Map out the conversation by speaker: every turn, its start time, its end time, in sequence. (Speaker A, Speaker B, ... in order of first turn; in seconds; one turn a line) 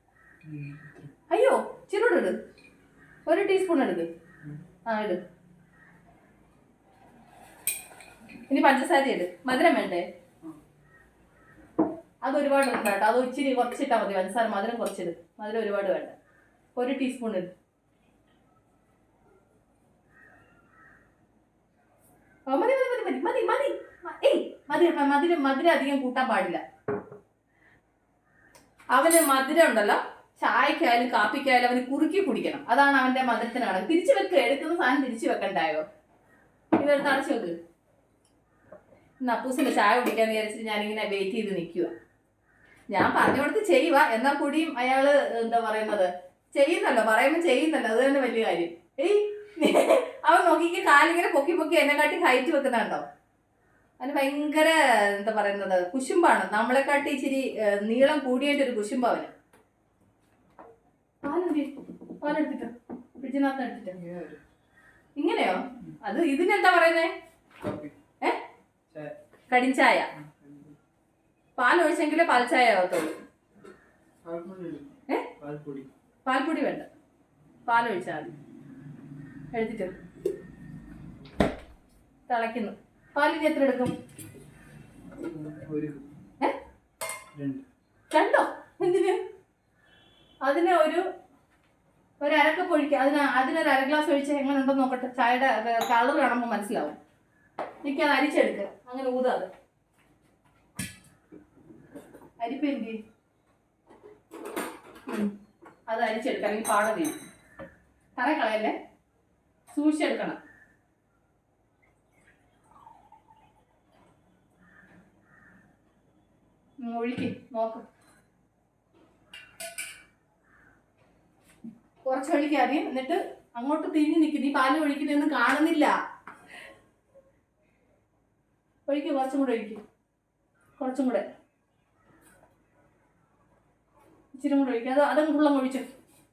Speaker A: 0.4-1.1
Speaker B: 1.3-2.3
Speaker B: 3.3-4.1
Speaker B: 4.9-5.2
Speaker B: 8.5-10.0
Speaker B: 12.2-16.1
Speaker B: 16.8-17.5
Speaker B: 22.5-26.6
Speaker B: 28.9-35.8
Speaker B: 36.8-37.5
Speaker B: 39.2-41.9
Speaker B: 42.9-53.0
Speaker B: 54.0-59.3
Speaker B: 61.2-61.7
Speaker B: 62.2-64.0
Speaker A: 63.9-64.4
Speaker B: 65.2-67.1
Speaker A: 67.6-67.9
Speaker A: 68.9-69.1
Speaker B: 69.5-70.1
Speaker A: 70.1-70.8
Speaker B: 71.6-73.1
Speaker A: 74.2-75.9
Speaker B: 76.2-76.9
Speaker B: 77.7-78.3
Speaker B: 79.5-79.9
Speaker B: 82.3-83.9
Speaker A: 85.2-86.1
Speaker A: 87.3-87.6
Speaker B: 88.1-89.2
Speaker B: 90.4-91.0
Speaker B: 92.2-97.0
Speaker B: 97.8-99.5
Speaker B: 102.4-103.0
Speaker B: 105.9-107.2
Speaker B: 108.2-108.7
Speaker B: 109.7-110.4
Speaker B: 116.8-117.8
Speaker B: 122.1-125.9
Speaker B: 128.9-129.8
Speaker B: 130.8-131.2
Speaker B: 134.3-135.9